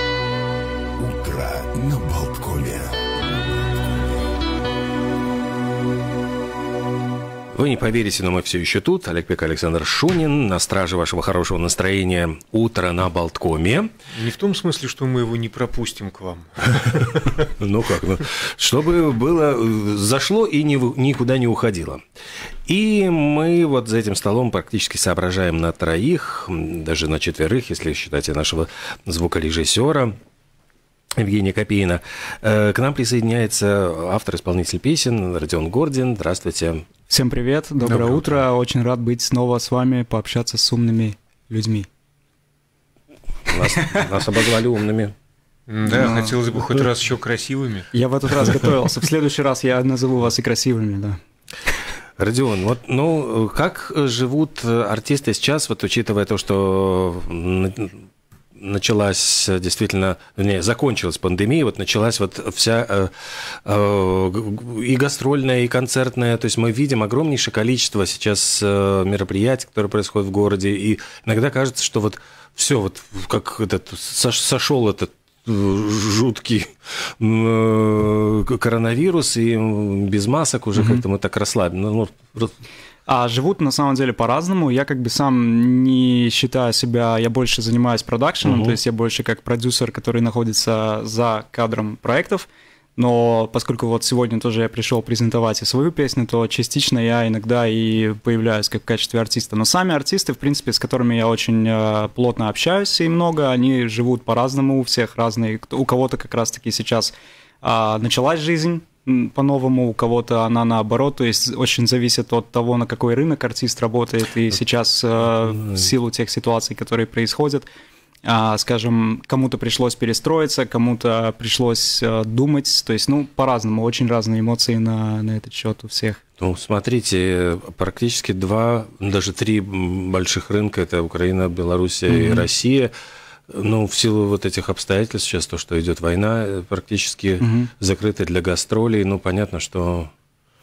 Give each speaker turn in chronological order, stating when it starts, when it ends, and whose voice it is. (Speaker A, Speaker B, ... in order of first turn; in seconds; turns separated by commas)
Speaker A: 1.0-3.0, Speaker B: 7.5-13.9, Speaker C: 14.1-17.5, Speaker B: 17.6-22.0, Speaker B: 22.7-30.1, Speaker B: 31.2-36.8, Speaker D: 37.1-41.9, Speaker C: 37.9-38.3, Speaker B: 43.5-45.1, Speaker D: 43.7-44.0, Speaker C: 45.7-47.9, Speaker D: 45.9-46.4, Speaker D: 47.9-51.2, Speaker B: 52.2-58.0, Speaker B: 58.6-63.1, Speaker B: 63.6-76.7, Speaker B: 77.2-82.5, Speaker D: 80.8-81.0, Speaker D: 83.0-117.7, Speaker B: 88.4-88.8, Speaker D: 118.2-126.2, Speaker B: 126.4-132.9, Speaker D: 132.1-132.5, Speaker B: 133.5-140.1, Speaker D: 137.4-137.7